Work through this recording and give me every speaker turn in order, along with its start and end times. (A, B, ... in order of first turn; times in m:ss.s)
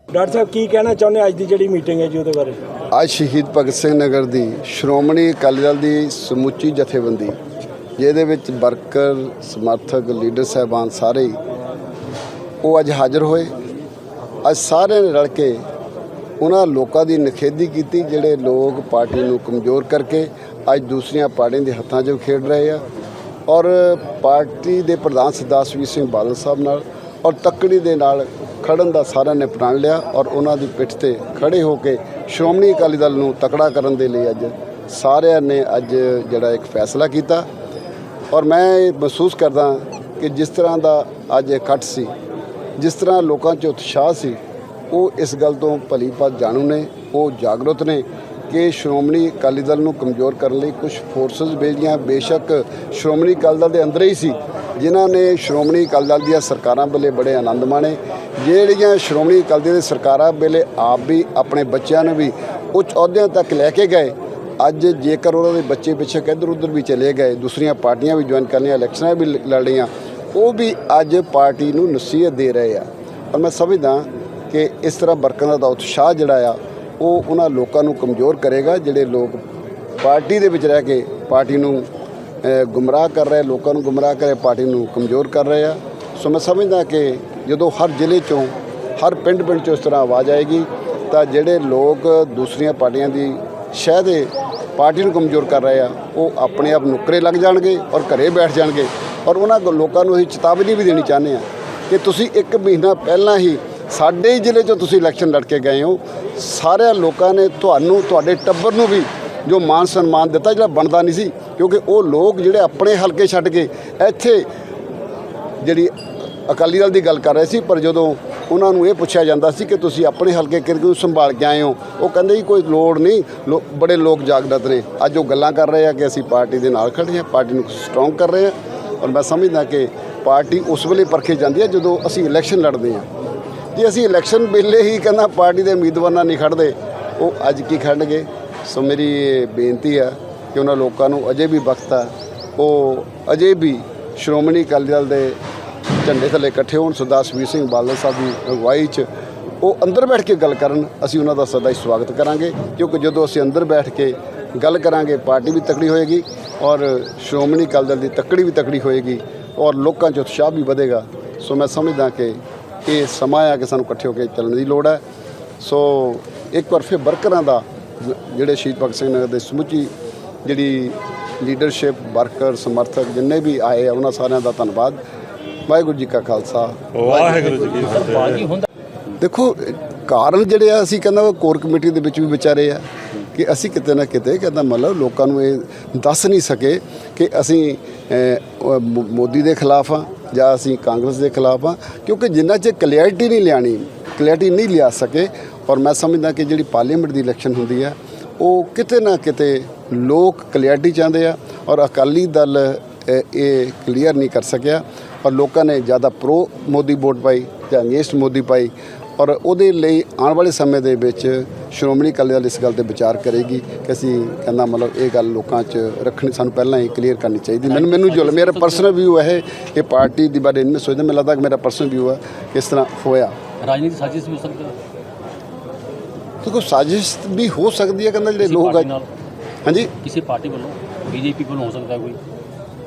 0:00.1-0:02.6 A
0:02.9-0:07.4 B
0:08.0-0:11.4 B
0:12.6-0:13.5 B
0:14.4-0:15.6 B
0:16.4-0:22.8 B
0:23.5-0:37.5 B
0:38.3-0:42.1 B
0:42.8-0:44.4 B
0:44.9-1:19.4 B
1:20.0-1:21.9 B
1:22.4-1:54.5 B
1:55.6-1:55.9 B
1:56.5-2:13.1 B
2:13.7-2:25.4 B
2:26.0-2:29.1 B
2:29.6-2:45.0 B
2:45.6-2:49.9 B
2:50.4-2:55.0 B
2:55.7-2:57.6 B
2:57.3-2:58.6 C
2:59.2-3:43.3 B
3:37.6-3:38.9 C
3:43.6-3:44.7 C
3:46.4-3:48.9 B
3:48.4-3:49.1 C
3:49.6-3:49.9 B
3:50.0-3:52.2 C